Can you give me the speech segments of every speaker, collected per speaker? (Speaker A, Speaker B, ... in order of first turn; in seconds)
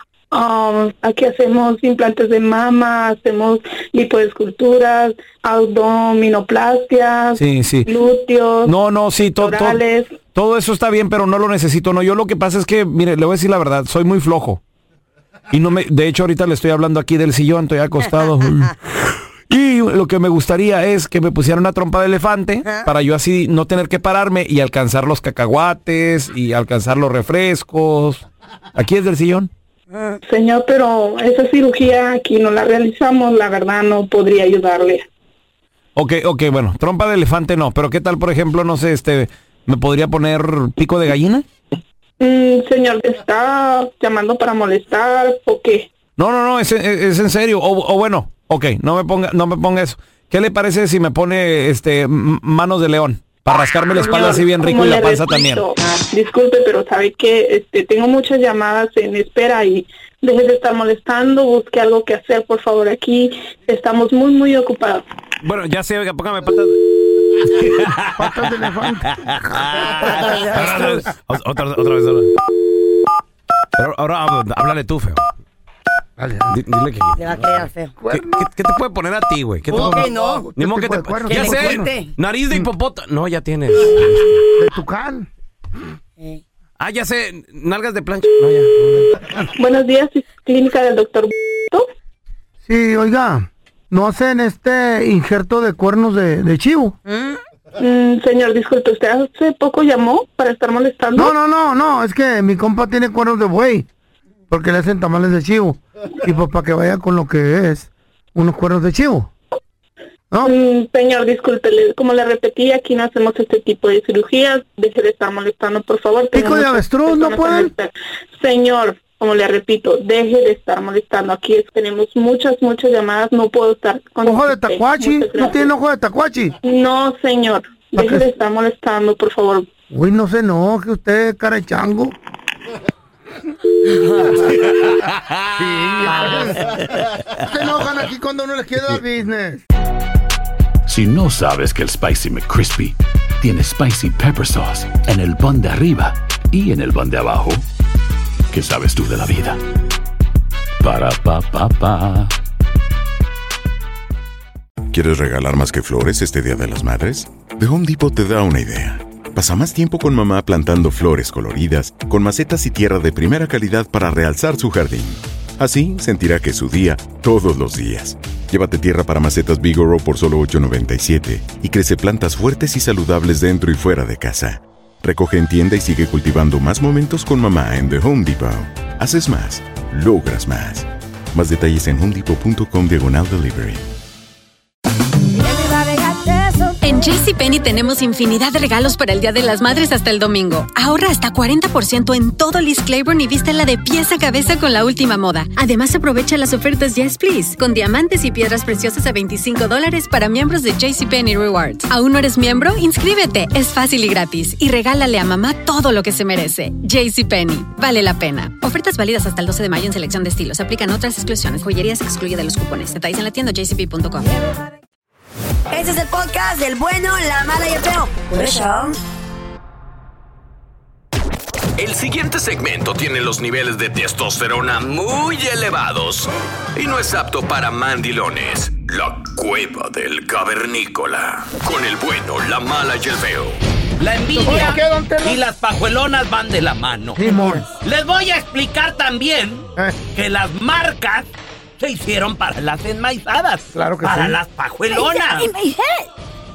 Speaker A: 0.3-8.7, 9.4-10.2, 30.3-35.0, 42.2-45.9, 53.9-65.0, 89.6-91.9, 97.8-101.3, 110.4-125.6, 126.6-129.7
Speaker B: 7.4-7.9, 8.7-9.8, 10.3-14.6, 15.5-18.8, 19.5-28.2, 28.8-29.5, 36.0-41.5, 46.2-55.6, 65.4-66.8, 67.5-67.9, 70.0-72.3, 73.8-75.2, 76.5-77.4, 78.1-84.4, 86.8-88.8
Speaker C: 68.0-70.7, 76.2-76.5, 78.0-78.5, 79.7-81.9, 84.5-85.3, 88.9-89.4, 92.7-97.0, 101.2-103.9, 104.5-109.3, 116.3-117.7, 124.2-126.6, 127.9-128.2, 129.9-132.2, 135.5-136.8, 137.3-139.6, 234.3-235.4, 237.2-237.6, 243.7-244.4
Speaker D: 69.8-70.3, 136.0-136.8, 234.0-245.5
Speaker E: 70.3-71.0, 77.2-78.0, 79.8-80.4, 81.3-82.1, 185.5-186.8, 215.7-219.0, 237.2-237.7, 244.9-246.1
Speaker F: 140.9-147.6, 148.5-149.6, 150.8-152.3
Speaker G: 154.9-183.8
Speaker H: 186.8-214.3
Speaker I: 221.8-233.6